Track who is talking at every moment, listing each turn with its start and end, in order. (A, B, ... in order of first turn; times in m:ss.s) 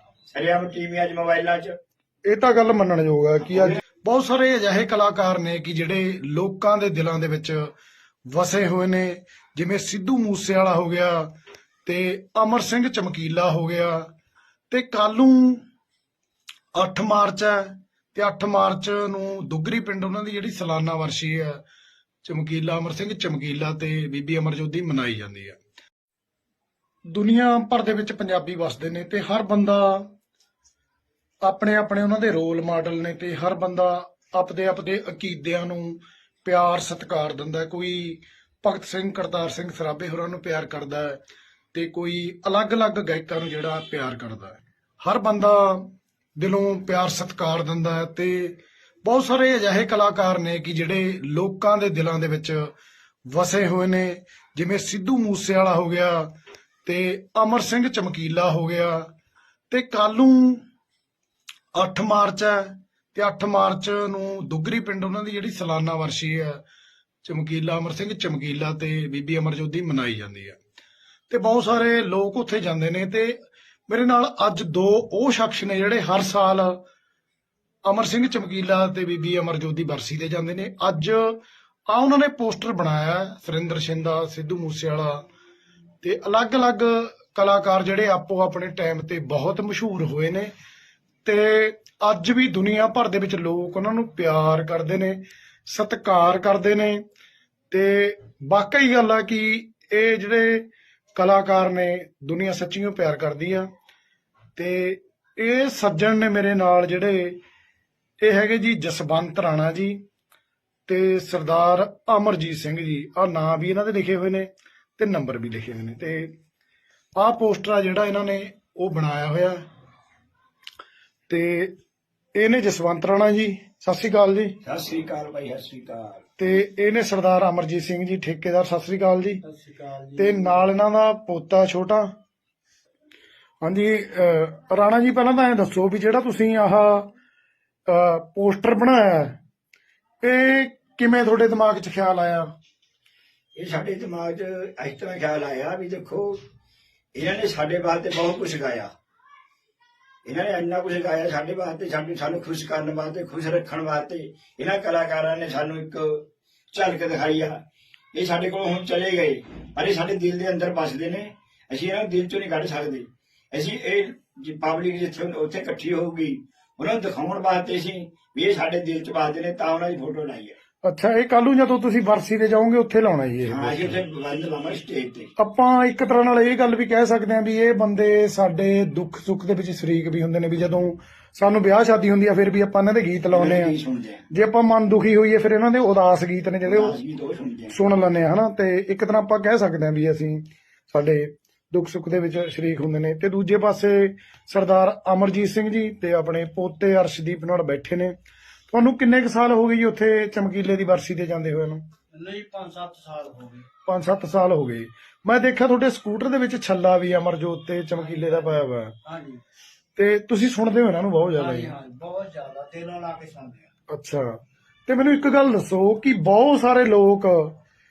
0:00.3-0:01.8 A
0:02.3-0:07.7 B
0:03.4-0:03.8 A
0:08.3-0:11.3 B
0:11.9-0:14.1 B
0:14.7-0:15.6 B
0:16.8-0:21.6 B
0:22.2-0:25.6 B
0:27.1-0:30.1 B
0:31.4-0:41.2 B
0:41.7-0:52.7 B
0:53.3-0:56.3 B
0:56.8-0:59.1 B
0:59.7-1:00.6 B
1:01.8-1:06.6 B
1:07.2-1:10.6 B
1:11.3-1:13.4 B
1:13.9-1:16.8 B
1:17.9-1:25.2 B
1:26.0-1:30.5 B
1:31.2-1:37.0 B
1:37.7-1:43.7 B
1:44.6-1:47.4 B
1:48.2-1:50.0 B
1:50.9-1:56.3 B
1:57.2-1:59.6 B
2:01.3-2:01.7 B
2:02.4-2:04.6 B
2:04.6-2:06.2 A
2:06.4-2:09.4 B
2:09.4-2:10.6 C
2:10.2-2:12.1 B
2:13.6-2:17.1 B
2:17.9-2:19.4 B
2:20.2-2:22.5 B
2:23.6-2:26.4 A
2:27.2-2:28.9 A
2:30.3-2:37.6 A
2:38.1-2:50.6 A
2:50.8-2:54.0 B
2:53.4-2:55.3 A
2:55.4-3:03.8 B
3:03.3-3:04.3 A
3:04.3-3:07.0 B
3:06.6-3:07.8 A
3:07.7-3:18.2 B
3:18.7-3:21.8 B
3:22.1-3:23.7 C
3:23.9-3:28.9 B
3:28.0-3:29.4 C
3:30.0-3:31.8 B
3:31.3-3:33.7 C
3:33.9-3:34.4 B
3:34.9-3:37.5 B